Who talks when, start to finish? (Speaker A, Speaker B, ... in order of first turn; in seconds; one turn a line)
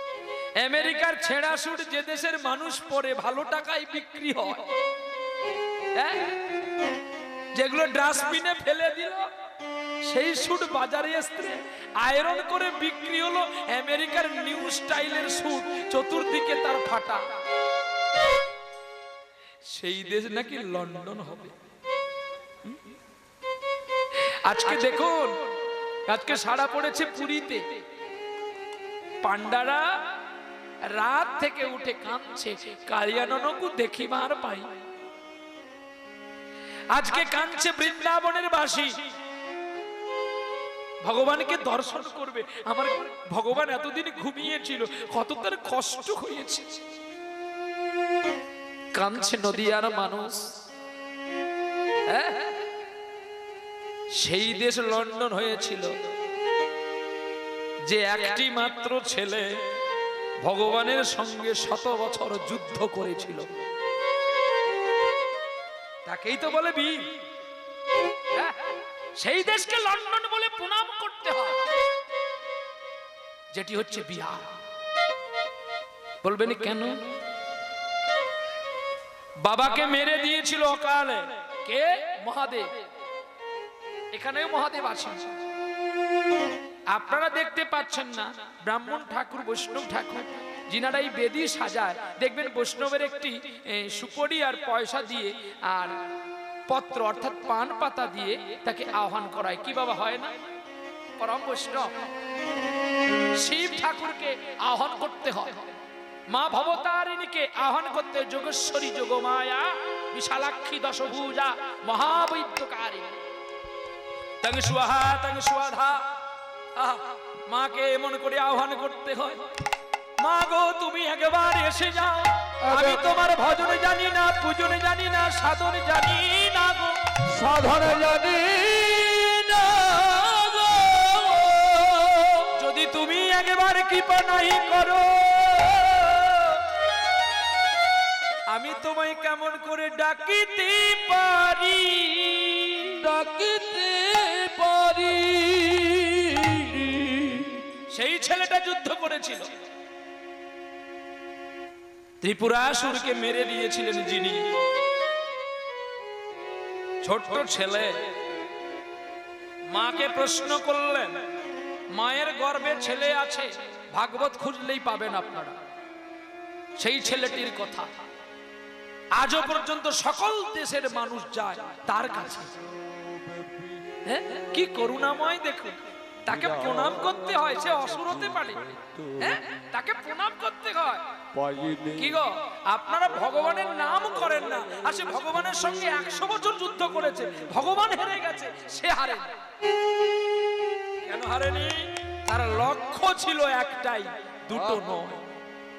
Speaker A: 0.6-4.7
Speaker A: 5.9-6.3
Speaker A: 7.5-9.3
Speaker A: 10.0-17.2
Speaker A: 19.7-21.5
Speaker A: 24.4-25.3
Speaker A: 26.1-27.7
Speaker A: 29.2-29.9
Speaker A: 30.9-34.7
Speaker A: 36.9-39.0
Speaker A: 41.0-46.8
Speaker A: 49.0-50.4
Speaker A: 52.1-52.5
Speaker A: 54.2-55.9
Speaker A: 57.9-59.5
Speaker A: 60.4-63.5
Speaker A: 66.0-67.0
Speaker A: 69.2-71.6
Speaker A: 73.5-74.4
Speaker A: 76.2-77.0
Speaker A: 79.4-82.7
Speaker A: 84.1-85.3
Speaker A: 86.9-95.9
Speaker A: 96.7-100.3
Speaker A: 101.2-101.9
Speaker A: 103.3-105.7
Speaker A: 106.3-113.2
Speaker A: 114.4-116.0
Speaker A: 116.8-119.4
Speaker A: 120.2-127.0
Speaker B: 122.7-123.0
Speaker B: 127.3-132.5
Speaker A: 132.6-135.4
Speaker B: 135.3-136.2
Speaker A: 138.5-142.9
Speaker B: 142.9-147.6
Speaker A: 147.9-149.5
Speaker A: 152.2-154.4
Speaker A: 157.0-158.0
Speaker A: 159.7-161.2
Speaker A: 161.9-165.6
Speaker A: 166.8-167.9
Speaker A: 169.2-172.5
Speaker B: 172.9-173.7
Speaker A: 174.1-181.0
Speaker B: 176.3-179.4
Speaker B: 181.3-182.2
Speaker A: 182.0-189.3
Speaker A: 191.0-195.2